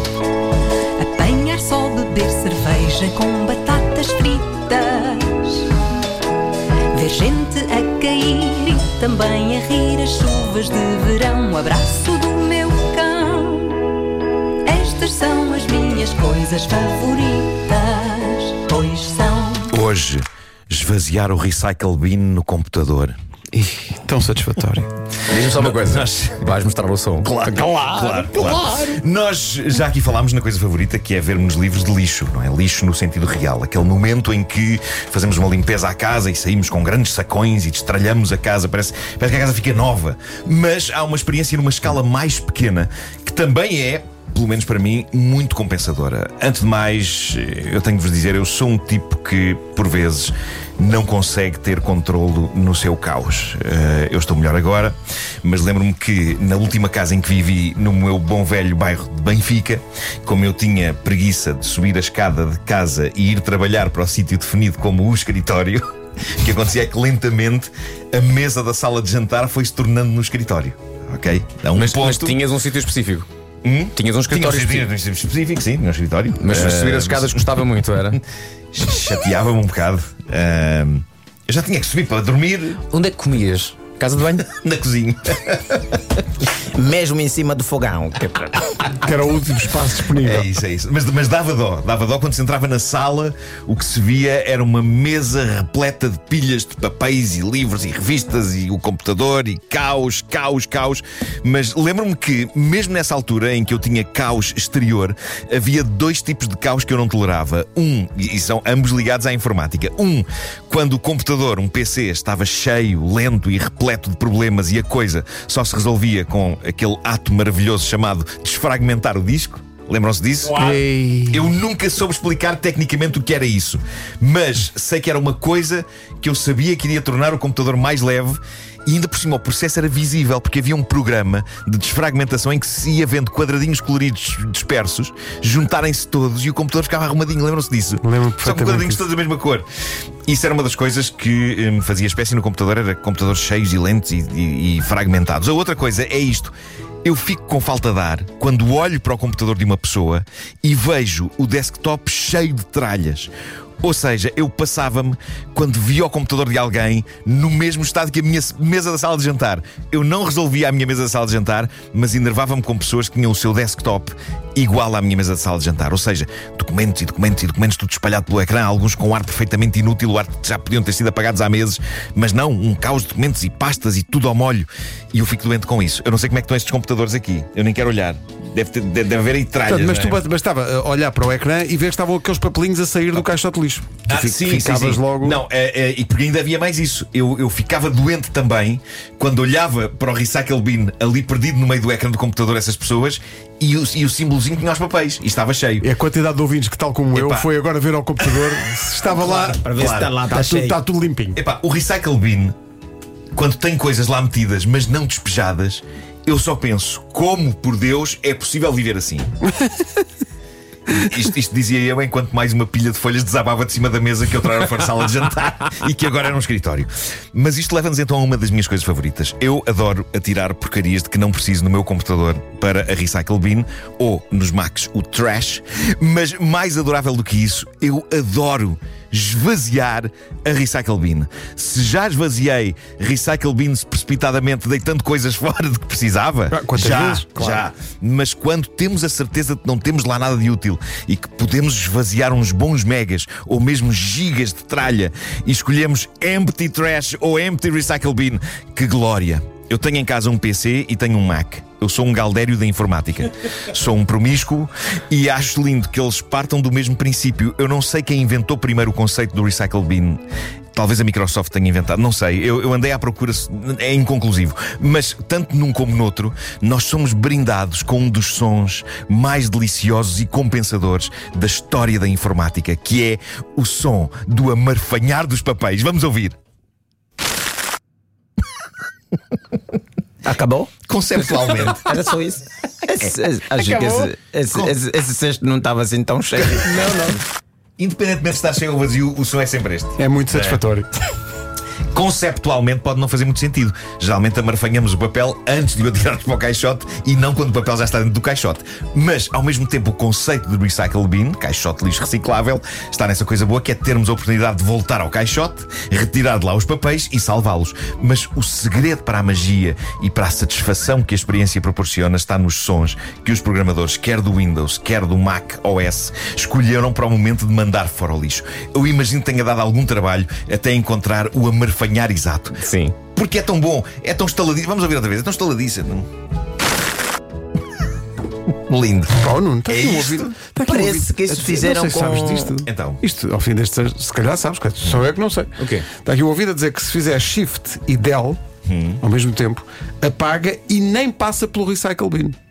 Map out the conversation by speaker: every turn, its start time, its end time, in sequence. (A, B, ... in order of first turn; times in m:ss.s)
0:01.0-0:05.7 A
0:06.9-0:13.8 A
0:14.6-0:19.7 A
0:19.7-0:23.2 B
0:23.5-0:24.9 C
0:25.3-0:27.3 D
0:25.3-0:26.5 B
0:27.2-1:12.4 B
1:11.7-1:13.3 D
1:13.6-1:18.2 B
1:13.9-1:14.9 D
1:16.4-1:18.2 D
1:18.7-1:22.8 B
1:22.9-1:24.5 D
1:24.4-1:26.2 B
1:26.5-1:28.7 E
1:29.0-1:30.5 C
1:30.2-2:00.8 B
2:00.5-2:01.5 C
2:01.3-2:19.7 B
2:18.0-2:19.0 C
2:20.3-3:00.2 B
2:59.6-3:05.4 C
3:04.1-3:15.9 B
3:15.8-3:19.6 C
3:17.1-3:17.5 B
3:18.2-3:18.6 B
3:19.0-3:20.8 E
3:19.7-3:20.1 B
3:20.3-3:21.4 C
3:21.3-3:22.5 B
3:23.3-3:29.3 B
3:30.9-4:20.2 B
3:56.5-3:57.6 C
4:20.7-4:36.4 B
4:40.2-4:40.7 E
4:40.8-4:42.0 B
4:41.4-4:47.2 E
4:43.0-4:44.7 B
4:46.6-4:47.1 B
4:46.8-4:47.1 C
4:47.8-4:50.6 B
4:50.0-4:50.9 C
4:51.9-5:26.1 B
5:22.6-5:23.0 D
5:28.5-5:30.4 B
5:29.2-5:38.4 C
5:30.6-5:32.6 E
5:32.6-5:33.0 B
5:35.6-5:35.9 D
5:38.6-5:39.0 B
5:39.0-5:42.4 C